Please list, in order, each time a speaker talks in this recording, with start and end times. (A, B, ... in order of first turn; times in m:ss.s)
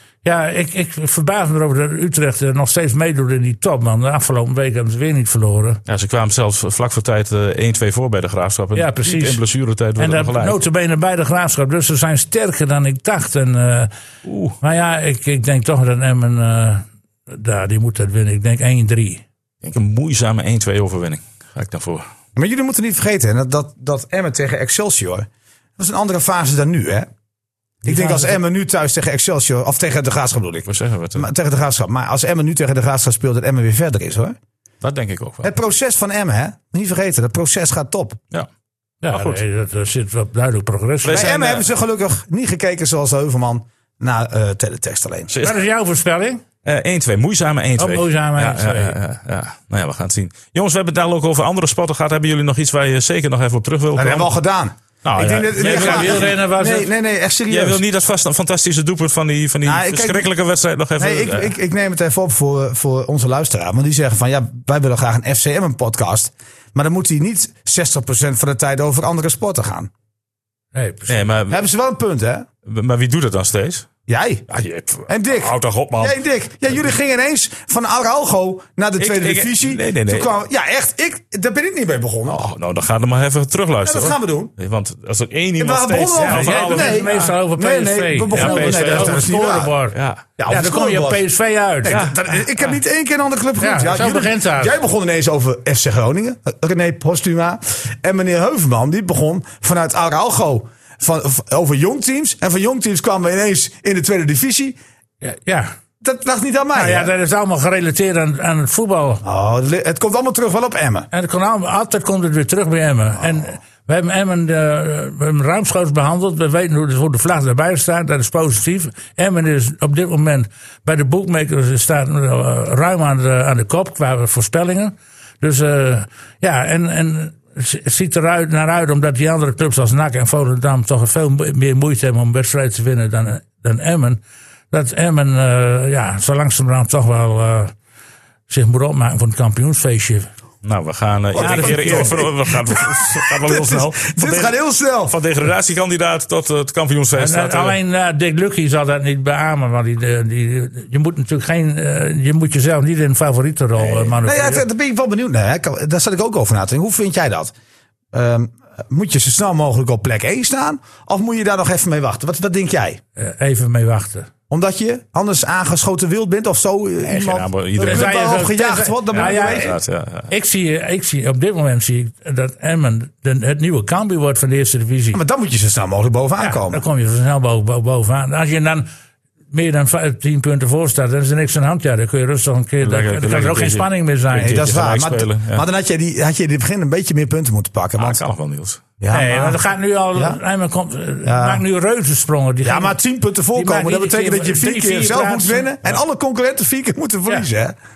0:00.2-0:05.8 A
0:05.9-0:10.6 B
0:08.7-0:09.4 A
0:10.0-0:13.9 A
0:14.2-0:14.6 B
0:14.6-0:19.2 A
0:19.6-0:22.0 B
0:22.4-0:25.3 C
0:25.8-0:27.1 C
0:27.8-0:28.4 A
0:27.8-0:34.4 C
0:30.7-0:31.3 B
0:34.8-0:35.5 B
0:35.4-0:38.2 C
0:39.0-0:41.3 A
0:39.1-0:39.4 B
0:41.0-0:41.7 B
0:41.1-0:45.3 C
0:45.3-0:45.6 B
0:45.4-0:46.4 A
0:46.6-0:54.3 B
0:47.8-0:49.0 A
0:53.9-0:57.8 C
0:55.0-0:56.3 B
0:55.5-0:56.9 A
0:57.5-1:01.5 B
0:59.6-1:00.3 C
1:01.0-1:09.9 C
1:10.7-1:11.2 A
1:11.1-1:11.6 B
1:11.5-1:12.5 C
1:12.6-1:13.9 B
1:14.1-1:14.5 C
1:14.5-1:16.2 B
1:15.1-1:22.4 C
1:19.0-1:20.3 B
1:22.3-1:27.3 B
1:23.8-1:24.5 C
1:25.6-1:29.7 C
1:26.2-1:30.0 A
1:28.3-1:29.3 B
1:29.9-1:30.2 B
1:30.4-1:31.2 C
1:30.5-1:32.0 A
1:31.8-1:44.8 C
1:31.9-1:32.2 B
1:33.6-1:34.8 A
1:45.2-1:45.7 A
1:46.0-1:47.1 C
1:46.7-1:49.2 A
1:49.2-1:51.1 C
1:51.1-2:17.7 A
2:18.5-2:20.3 A
2:20.6-2:27.8 B
2:21.3-2:25.2 C
2:21.4-2:22.2 A
2:27.2-2:34.6 A
2:33.8-2:37.5 C
2:38.1-2:43.0 C
2:43.2-2:44.3 A
2:44.5-2:49.8 C
2:47.0-2:48.4 B
2:47.8-2:49.8 A
2:49.1-2:50.3 B
2:50.3-2:55.2 A
2:55.1-2:56.8 C
2:56.4-2:58.9 A
2:59.5-3:04.6 A
3:02.8-3:05.6 B
3:04.3-3:08.2 C
3:08.0-3:08.8 B
3:09.0-3:09.6 C
3:09.1-3:13.0 A
3:11.2-3:11.6 C
3:12.6-3:17.7 C
3:13.5-3:15.7 A